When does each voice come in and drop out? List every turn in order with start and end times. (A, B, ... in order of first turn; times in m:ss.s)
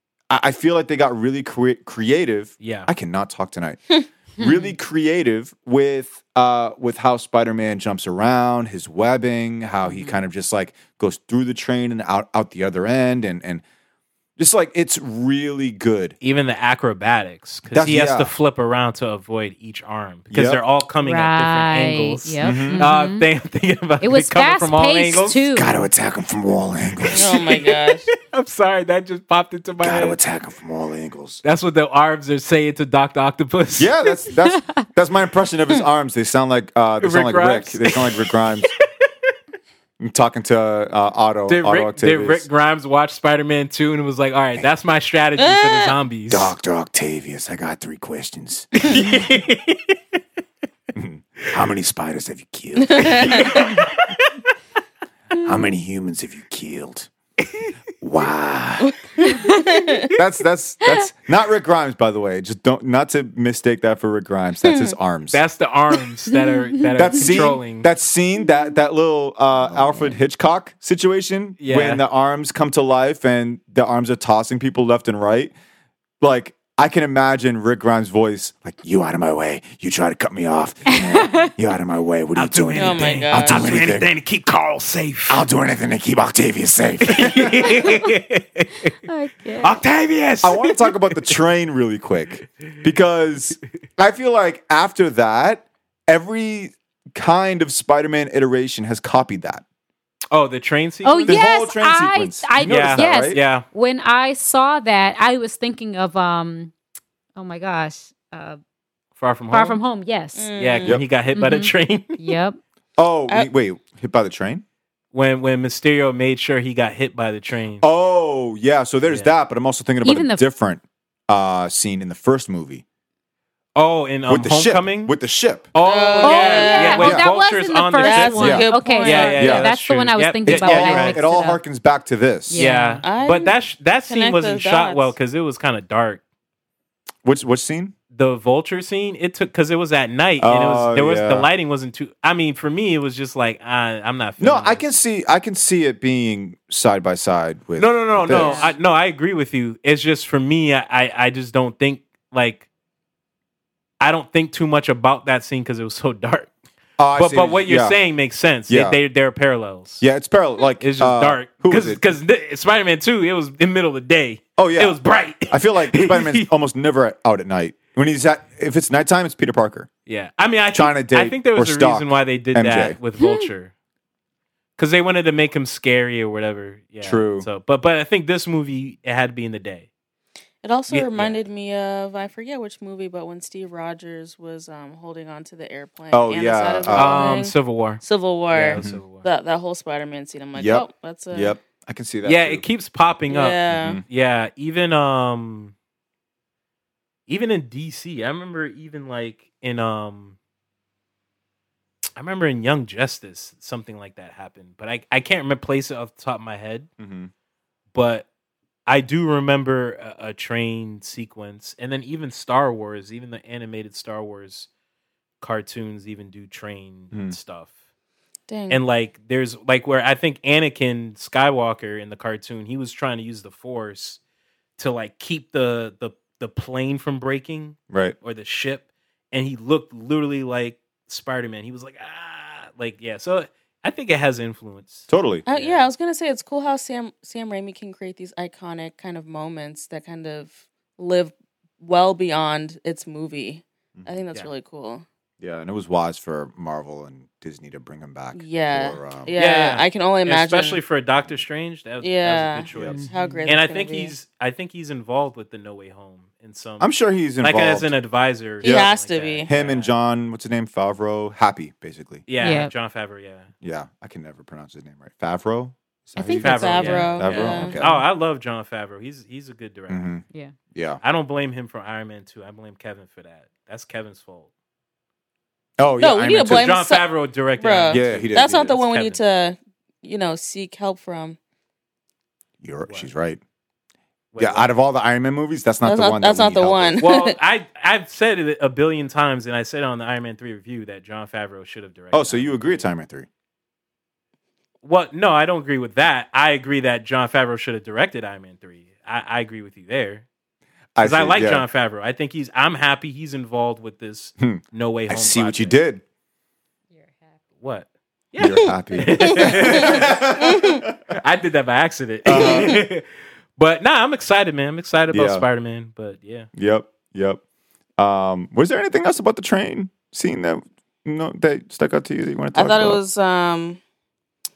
0:00.3-0:13.6 A
0:02.6-0:02.9 B
0:04.4-0:04.7 C
0:09.9-0:10.2 C
0:14.4-0:16.1 A
0:16.2-0:25.5 B
0:17.7-0:18.3 A
0:20.3-0:20.6 A
0:21.0-0:23.3 C
0:22.4-0:22.8 A
0:24.0-0:25.9 C
0:25.6-0:27.4 A
0:27.0-0:30.2 B
0:27.1-0:28.1 D
0:29.8-0:31.4 A
0:31.4-0:33.9 B
0:33.8-0:38.7 A
0:34.1-0:34.8 C
0:37.0-0:38.7 B
0:40.0-0:42.5 A
0:41.5-0:46.5 B
0:45.4-0:46.0 D
0:46.3-0:48.7 A
0:48.8-0:50.0 B
0:50.9-0:53.8 A
0:52.8-0:53.8 D
0:53.1-0:54.3 B
0:55.3-0:57.1 A
0:57.4-0:57.7 B
0:58.0-0:58.9 A
0:58.8-1:00.1 D
1:00.1-1:05.4 A
1:04.6-1:05.0 D
1:05.3-1:07.9 B
1:06.3-1:06.9 C
1:07.0-1:15.5 A
1:11.6-1:12.0 B
1:16.2-1:24.1 A
1:20.9-1:21.5 C
1:22.4-1:25.4 B
1:22.8-1:23.6 D
1:25.3-1:27.9 A
1:27.1-1:28.9 B
1:27.7-1:28.0 C
1:29.1-1:29.8 C
1:29.6-1:31.3 B
1:30.4-1:39.6 A
1:40.3-1:41.4 B
1:41.0-1:46.7 C
1:41.3-1:43.4 A
1:42.6-1:43.6 B
1:47.4-1:48.6 C
1:49.2-1:49.8 B
1:49.5-1:50.5 C
1:50.4-1:51.0 D
1:50.6-1:52.4 B
1:51.4-1:52.6 C
1:53.0-1:54.6 A
1:55.1-1:57.8 B
1:57.8-2:02.8 A
2:00.0-2:00.4 C
2:03.8-2:05.1 B
2:04.3-2:05.7 A
2:05.7-2:11.2 B
2:05.8-2:07.1 D
2:06.2-2:11.6 C
2:07.0-2:07.3 A
2:08.0-2:09.5 D
2:08.4-2:08.7 A
2:09.4-2:09.7 A
2:10.5-2:12.6 A
2:12.5-2:13.0 C
2:12.6-2:16.2 B
2:13.0-2:15.1 D
2:17.2-2:17.9 A
2:18.1-2:24.9 B
2:20.4-2:21.5 A
2:24.4-2:28.8 A
2:27.8-2:32.7 B
2:28.3-2:28.7 C
2:34.0-2:36.5 B
2:37.0-2:38.0 A
2:37.1-2:40.0 B
2:38.7-2:39.0 A
2:40.0-2:42.0 A
2:40.8-2:46.5 B
2:44.6-2:49.9 A
2:50.1-2:53.7 B
2:50.7-2:53.0 A
2:53.2-2:53.5 C
2:54.8-2:59.9 B
2:57.0-2:57.5 A
3:00.6-3:11.6 D
3:00.9-3:01.4 B
3:06.1-3:07.2 A
3:06.9-3:09.3 B
3:08.8-3:09.0 A
3:10.6-3:12.6 A
3:12.2-3:15.7 B
3:13.3-3:14.0 D
3:13.7-3:14.0 A
3:17.3-3:20.4 B
3:22.2-3:26.9 B
3:27.0-3:27.3 A
3:27.9-3:28.3 B
3:28.9-3:34.7 B
3:35.4-3:37.7 B
3:38.5-3:38.8 D
3:38.7-3:44.2 B
3:44.8-3:55.9 B
3:47.9-3:48.2 A
3:55.1-3:55.4 A
3:55.5-4:05.0 D
4:05.4-4:09.3 A
4:08.3-4:10.8 D
4:09.4-4:20.0 B
4:12.0-4:14.1 D
4:12.7-4:13.0 A
4:12.9-4:13.5 C
4:16.8-4:17.9 A
4:18.6-4:18.9 A
4:18.6-4:19.5 D
4:19.5-4:22.2 A
4:22.3-4:23.5 B
4:22.4-4:22.7 C
4:23.6-4:28.0 A
4:26.2-4:27.8 D
4:26.4-4:30.0 B
4:26.8-4:28.0 C
4:29.9-4:31.0 A
4:31.0-4:34.5 B
4:35.8-4:36.7 A
4:36.0-4:37.0 D
4:36.4-4:39.2 B
4:37.6-4:41.4 D
4:37.9-4:38.8 A
4:42.6-4:43.4 A
4:44.3-4:44.7 B
4:44.4-4:47.0 A
4:45.8-4:47.4 D
4:47.0-4:52.9 B
4:52.1-4:53.3 A
4:54.8-5:00.2 B
5:01.0-5:01.7 A
5:01.0-5:05.8 B
5:04.4-5:06.0 A
5:07.0-5:07.2 C
5:07.6-5:10.2 B
5:08.4-5:11.1 A
5:09.2-5:10.8 D
5:11.1-5:13.0 B
5:12.2-5:12.8 A
5:12.3-5:12.8 D
5:13.6-5:16.5 B
5:15.1-5:15.5 A
5:16.6-5:17.4 A
5:18.0-5:23.0 A
5:22.5-5:23.8 D